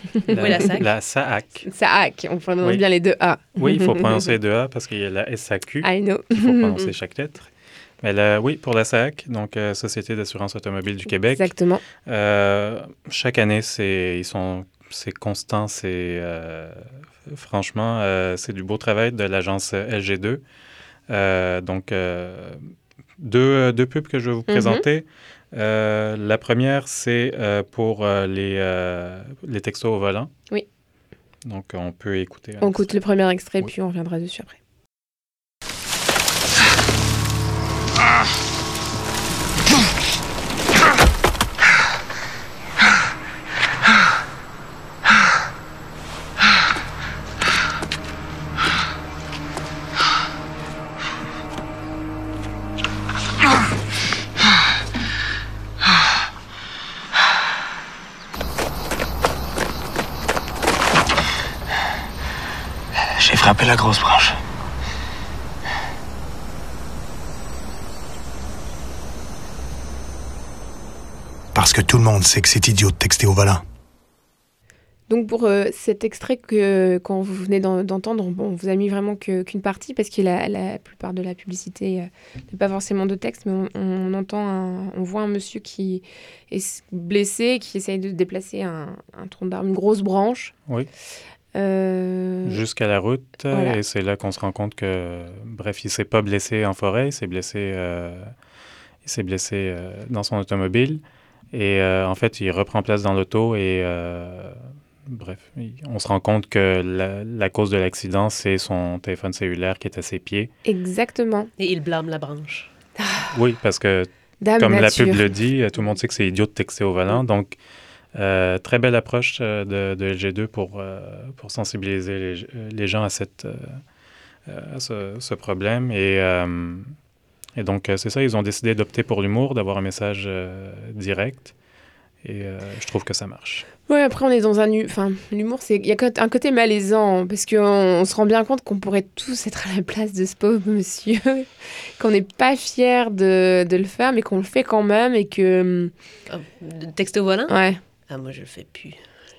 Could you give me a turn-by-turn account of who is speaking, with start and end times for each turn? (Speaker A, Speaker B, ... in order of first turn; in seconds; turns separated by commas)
Speaker A: 0.2-0.6, Speaker B: 0.3-1.6, Speaker C: 0.3-0.9, Speaker A: 1.7-4.2, Speaker B: 3.6-7.5, Speaker A: 5.8-6.8, Speaker B: 8.0-11.5, Speaker A: 11.3-11.8, Speaker B: 12.0-20.4, Speaker B: 21.1-22.6, Speaker B: 23.2-30.3, Speaker A: 24.5-24.8, Speaker B: 31.4-33.0, Speaker A: 32.6-34.6, Speaker D: 71.5-73.6, Speaker A: 75.1-90.5, Speaker A: 91.5-92.6, Speaker B: 92.4-98.3, Speaker A: 93.5-93.8, Speaker B: 99.0-101.0, Speaker B: 101.5-104.6, Speaker B: 105.1-110.5, Speaker A: 110.6-111.5, Speaker C: 111.6-112.7, Speaker B: 113.3-117.5, Speaker A: 114.4-115.3, Speaker B: 118.1-123.8, Speaker B: 124.5-126.9, Speaker B: 127.6-131.5, Speaker B: 132.2-133.7, Speaker A: 133.9-141.4, Speaker A: 142.0-145.9, Speaker C: 146.3-147.5, Speaker A: 147.5-147.8, Speaker C: 148.1-149.0